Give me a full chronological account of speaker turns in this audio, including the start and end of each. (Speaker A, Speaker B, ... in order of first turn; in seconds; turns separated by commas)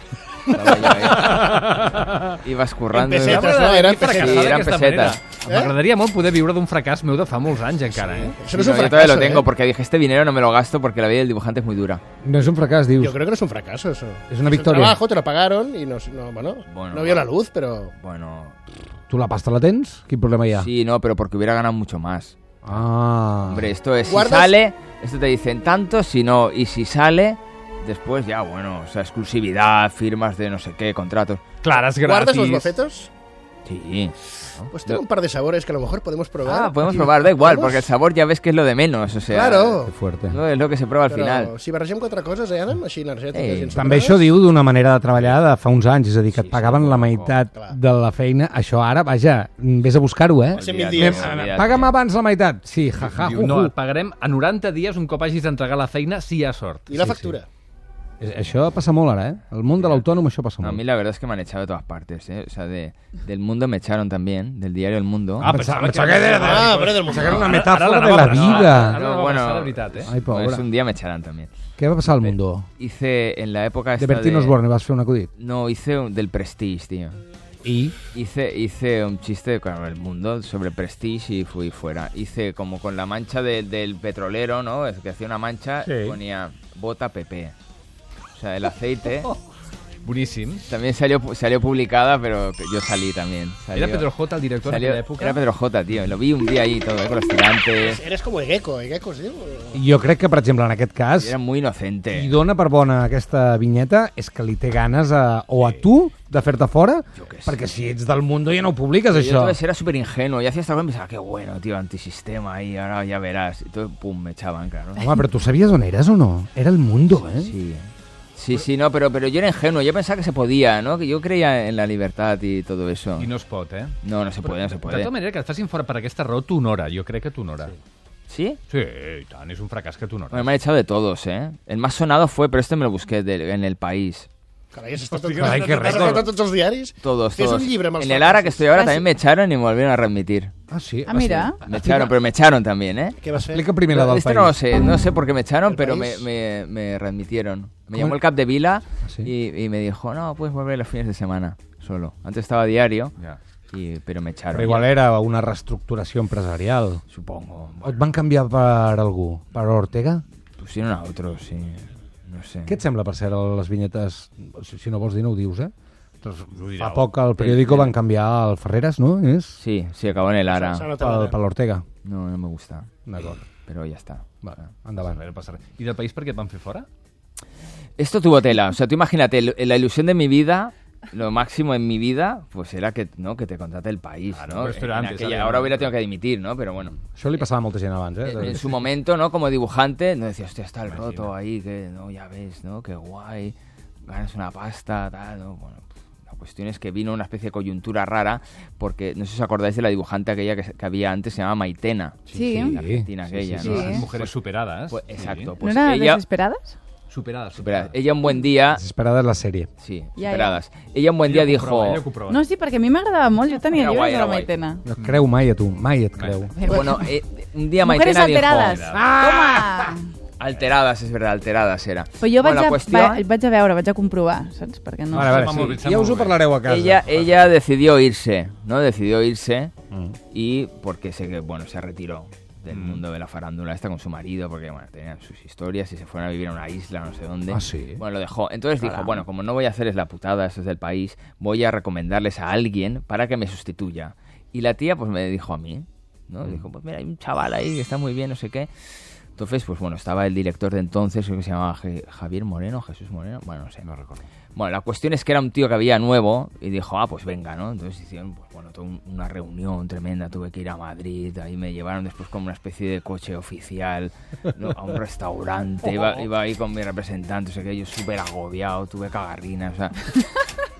Speaker A: 0.5-1.6, Speaker B: 1.0-2.4, Speaker A: 2.4-5.2, Speaker C: 2.9-4.6, Speaker B: 3.1-8.4, Speaker C: 5.5-5.8, Speaker C: 7.9-9.5, Speaker A: 8.5-12.0, Speaker D: 12.2-13.2, Speaker C: 13.0-17.9, Speaker D: 14.3-15.0, Speaker A: 16.7-17.3, Speaker A: 18.0-18.6, Speaker D: 19.1-20.7, Speaker A: 20.5-22.4, Speaker D: 22.6-23.7, Speaker A: 23.5-31.4, Speaker C: 24.1-24.6, Speaker B: 31.6-32.7, Speaker C: 32.0-33.1, Speaker A: 33.7-34.2, Speaker C: 34.7-37.9, Speaker A: 36.4-41.5, Speaker C: 39.3-39.9, Speaker D: 39.9-40.4, Speaker C: 41.1-44.2, Speaker A: 43.3-44.0, Speaker D: 43.7-53.7, Speaker A: 46.3-47.4, Speaker A: 50.5-52.0, Speaker C: 50.6-51.3, Speaker B: 53.0-56.9, Speaker C: 56.9-57.5, Speaker D: 56.9-57.4, Speaker D: 58.2-60.8, Speaker A: 60.6-65.5, Speaker D: 65.4-69.0, Speaker B: 65.4-70.1, Speaker C: 66.3-67.4, Speaker A: 67.3-67.5, Speaker A: 68.4-71.5, Speaker D: 70.0-70.7, Speaker D: 71.8-72.7, Speaker A: 72.1-74.6, Speaker D: 74.0-75.3, Speaker A: 75.4-77.2, Speaker D: 77.6-78.0, Speaker A: 78.1-87.5, Speaker A: 88.3-89.3, Speaker B: 90.0-90.7, Speaker A: 90.7-94.1, Speaker B: 93.7-95.4, Speaker A: 94.6-98.0, Speaker C: 97.8-99.8, Speaker D: 99.7-101.4, Speaker A: 101.2-102.4, Speaker D: 102.1-109.6, Speaker A: 107.1-107.6, Speaker A: 109.1-115.1, Speaker D: 115.0-117.5, Speaker A: 117.3-123.3, Speaker B: 123.2-127.8, Speaker A: 124.0-125.1, Speaker A: 128.3-128.6, Speaker B: 128.7-130.5, Speaker A: 130.3-134.3, Speaker C: 134.7-138.9, Speaker B: 135.1-136.2, Speaker D: 135.4-136.2, Speaker A: 137.0-140.5, Speaker D: 140.7-142.1, Speaker E: 141.1-141.6, Speaker A: 141.2-143.2, Speaker C: 143.2-143.7, Speaker D: 143.4-144.6, Speaker A: 143.9-153.1, Speaker C: 145.7-146.2, Speaker D: 147.9-148.2, Speaker D: 149.0-149.3, Speaker A: 153.7-154.9, Speaker D: 154.5-157.0, Speaker A: 157.1-158.0, Speaker D: 157.8-160.2, Speaker A: 160.6-162.8, Speaker D: 162.7-169.6, Speaker B: 166.5-167.1, Speaker A: 167.4-167.9, Speaker A: 169.6-170.9, Speaker C: 170.5-171.3, Speaker D: 171.0-171.8, Speaker A: 172.0-172.9, Speaker D: 173.1-173.4, Speaker A: 173.7-174.7, Speaker D: 174.4-175.2, Speaker B: 175.0-176.9, Speaker A: 178.0-187.4, Speaker B: 184.3-185.9, Speaker D: 187.1-188.7, Speaker A: 188.2-193.6, Speaker B: 190.9-191.3, Speaker A: 194.1-204.3, Speaker E: 202.3-202.8, Speaker D: 202.3-204.0, Speaker B: 203.3-205.5, Speaker E: 203.6-204.0, Speaker A: 204.9-206.2, Speaker E: 205.6-206.8, Speaker B: 207.1-207.9, Speaker A: 207.6-208.8, Speaker D: 208.7-209.7, Speaker A: 209.8-212.0, Speaker E: 210.2-210.6, Speaker B: 211.2-212.4, Speaker E: 212.3-214.8, Speaker A: 213.7-214.5, Speaker D: 214.9-216.7, Speaker B: 215.0-215.2, Speaker B: 216.2-216.5, Speaker E: 216.6-217.0, Speaker A: 216.6-218.8, Speaker E: 217.8-220.1, Speaker B: 218.6-219.1, Speaker D: 218.9-219.9, Speaker A: 220.4-223.2, Speaker E: 222.2-225.4, Speaker B: 225.1-226.4, Speaker D: 225.1-227.0, Speaker A: 226.7-229.7, Speaker D: 229.9-230.2, Speaker A: 230.3-248.7, Speaker B: 232.7-233.0, Speaker D: 237.5-238.0, Speaker A: 249.4-253.8, Speaker B: 253.8-254.2, Speaker A: 254.6-270.4